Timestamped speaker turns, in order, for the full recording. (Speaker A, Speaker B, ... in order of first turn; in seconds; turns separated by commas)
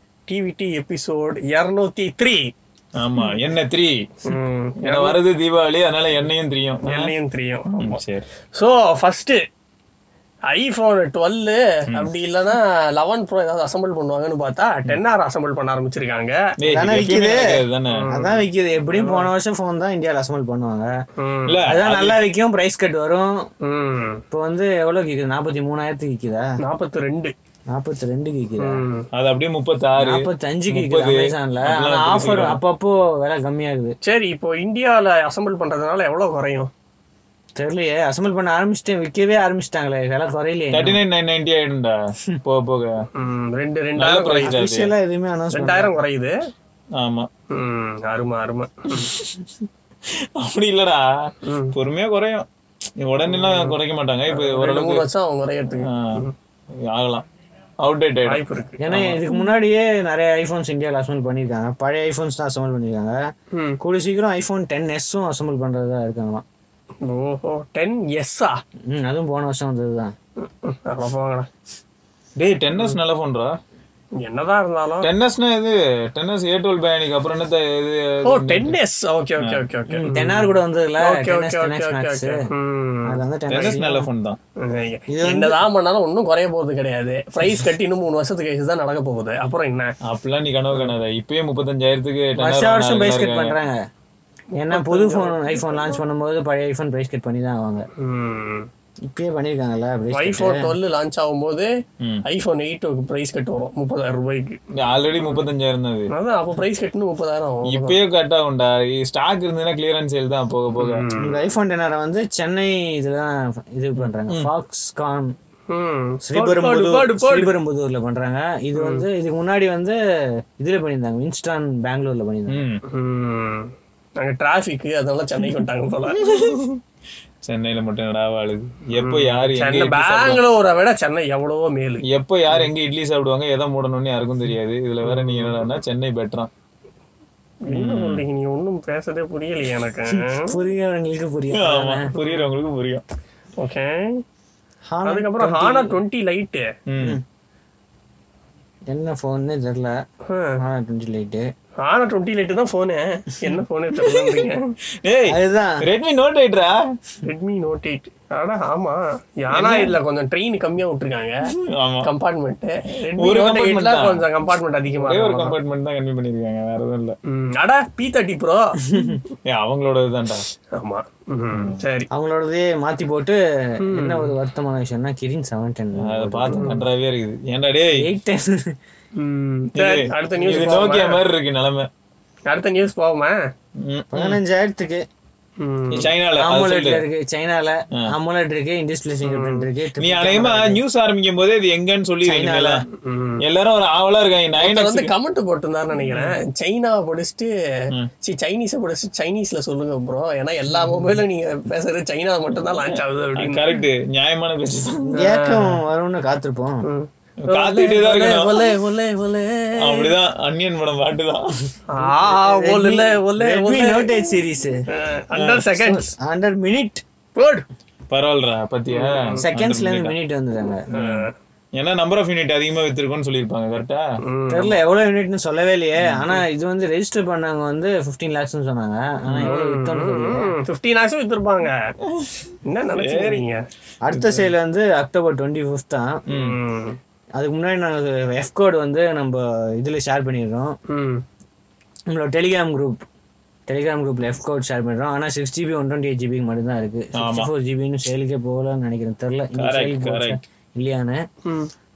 Speaker A: 0.3-2.4, Speaker B: 3.0-7.1, Speaker A: 4.2-5.2, Speaker A: 6.8-8.0, Speaker B: 7.7-8.2, Speaker A: 8.5-9.4, Speaker A: 10.5-16.4, Speaker B: 16.6-18.1, Speaker C: 16.7-17.4, Speaker A: 17.9-19.3, Speaker C: 18.1-20.9, Speaker A: 21.2-21.6, Speaker B: 21.5-22.2, Speaker C: 21.6-23.4, Speaker A: 23.6-24.2, Speaker C: 24.3-26.5, Speaker A: 26.6-27.3, Speaker C: 27.7-28.8, Speaker A: 28.6-29.1, Speaker B: 29.1-32.6, Speaker C: 30.0-34.0, Speaker A: 34.0-36.7, Speaker C: 37.6-41.0, Speaker B: 40.7-42.9, Speaker A: 43.2-44.6, Speaker B: 44.0-44.9, Speaker C: 44.4-45.9, Speaker A: 45.5-46.3, Speaker B: 47.0-47.3, Speaker A: 47.5-49.1, Speaker B: 48.9-49.4, Speaker B: 50.4-52.4, Speaker A: 51.4-51.7, Speaker B: 53.0-55.0, Speaker A: 53.2-53.8, Speaker A: 54.3-56.3, Speaker B: 55.9-56.2, Speaker B: 56.9-57.2, Speaker B: 57.8-59.2, Speaker A: 58.2-58.8, Speaker C: 58.8-63.2, Speaker A: 63.5-63.8, Speaker C: 63.8-66.4, Speaker A: 67.0-68.5, Speaker C: 68.9-70.1, Speaker A: 70.4-71.5, Speaker B: 72.4-73.5, Speaker A: 74.2-75.1, Speaker B: 75.0-78.8, Speaker A: 78.2-80.5, Speaker B: 79.4-79.7, Speaker C: 79.9-82.4, Speaker A: 81.0-83.7, Speaker C: 83.1-84.1, Speaker B: 83.5-84.4, Speaker A: 84.6-89.9, Speaker C: 85.1-85.6, Speaker B: 90.0-93.6, Speaker C: 92.4-93.8, Speaker C: 94.6-97.8, Speaker A: 94.6-96.0, Speaker A: 98.0-98.7, Speaker C: 99.0-100.7, Speaker A: 100.1-101.7, Speaker A: 102.2-104.6, Speaker B: 104.8-106.1, Speaker A: 105.2-105.5, Speaker A: 106.1-108.0, Speaker B: 107.7-111.0, Speaker A: 110.8-111.4, Speaker C: 111.2-115.3, Speaker A: 115.7-117.5, Speaker C: 116.2-120.0, Speaker A: 118.8-119.0, Speaker C: 120.6-122.6, Speaker B: 122.5-122.8, Speaker A: 122.9-126.6, Speaker B: 126.2-126.8, Speaker B: 127.5-130.4, Speaker A: 129.0-132.7, Speaker B: 132.1-136.5, Speaker A: 135.0-135.6, Speaker A: 137.7-140.5, Speaker B: 137.7-138.2, Speaker C: 140.3-142.1, Speaker B: 141.5-143.0, Speaker A: 142.2-142.5, Speaker A: 143.6-144.2, Speaker C: 144.9-146.0, Speaker A: 145.0-146.7, Speaker B: 146.9-147.2, Speaker C: 148.9-149.9, Speaker A: 150.3-150.6, Speaker C: 150.6-151.5, Speaker A: 151.8-154.7, Speaker B: 154.0-154.5, Speaker B: 155.0-156.8, Speaker C: 155.3-155.8, Speaker A: 157.2-161.4, Speaker B: 159.5-160.0, Speaker B: 161.5-162.1, Speaker A: 162.0-165.6, Speaker B: 163.2-164.2, Speaker B: 164.9-167.2, Speaker A: 167.3-169.0, Speaker C: 168.9-169.2, Speaker B: 169.5-170.4, Speaker A: 170.7-172.1, Speaker B: 171.5-171.8, Speaker C: 172.1-176.7, Speaker A: 173.8-174.3, Speaker B: 176.0-178.1, Speaker A: 176.6-176.8, Speaker C: 178.0-178.7, Speaker A: 179.2-181.2, Speaker B: 179.8-181.9, Speaker C: 180.4-180.9, Speaker A: 182.5-183.4, Speaker B: 183.8-184.4, Speaker C: 184.1-185.1, Speaker A: 185.6-186.1, Speaker B: 185.9-187.0, Speaker C: 186.4-190.8, Speaker A: 189.2-189.7, Speaker B: 190.0-192.8, Speaker C: 192.2-192.8, Speaker A: 193.0-193.4, Speaker B: 193.4-195.1, Speaker A: 194.6-197.5, Speaker A: 198.2-203.7, Speaker B: 203.4-205.2, Speaker C: 205.0-206.8, Speaker A: 205.2-205.8, Speaker A: 206.8-210.1, Speaker B: 207.4-208.7, Speaker B: 209.8-211.7, Speaker A: 211.9-214.1, Speaker C: 212.1-214.8, Speaker A: 214.9-216.1, Speaker B: 215.3-215.7, Speaker C: 215.7-217.0, Speaker A: 217.3-217.6, Speaker B: 218.1-220.2, Speaker A: 218.9-219.4, Speaker C: 219.4-220.9, Speaker B: 220.9-224.0, Speaker A: 220.9-221.3, Speaker A: 224.2-224.8, Speaker C: 224.5-230.5, Speaker B: 226.0-226.4, Speaker B: 229.2-229.6, Speaker A: 229.4-231.7, Speaker B: 232.1-232.4, Speaker A: 232.7-233.6, Speaker B: 233.0-233.4, Speaker C: 234.0-236.1, Speaker B: 234.1-234.5, Speaker B: 236.3-236.6, Speaker A: 236.3-237.0, Speaker C: 237.3-240.7, Speaker A: 240.9-241.2, Speaker C: 242.1-243.0, Speaker C: 243.7-251.2, Speaker B: 247.2-247.5, Speaker B: 249.6-250.4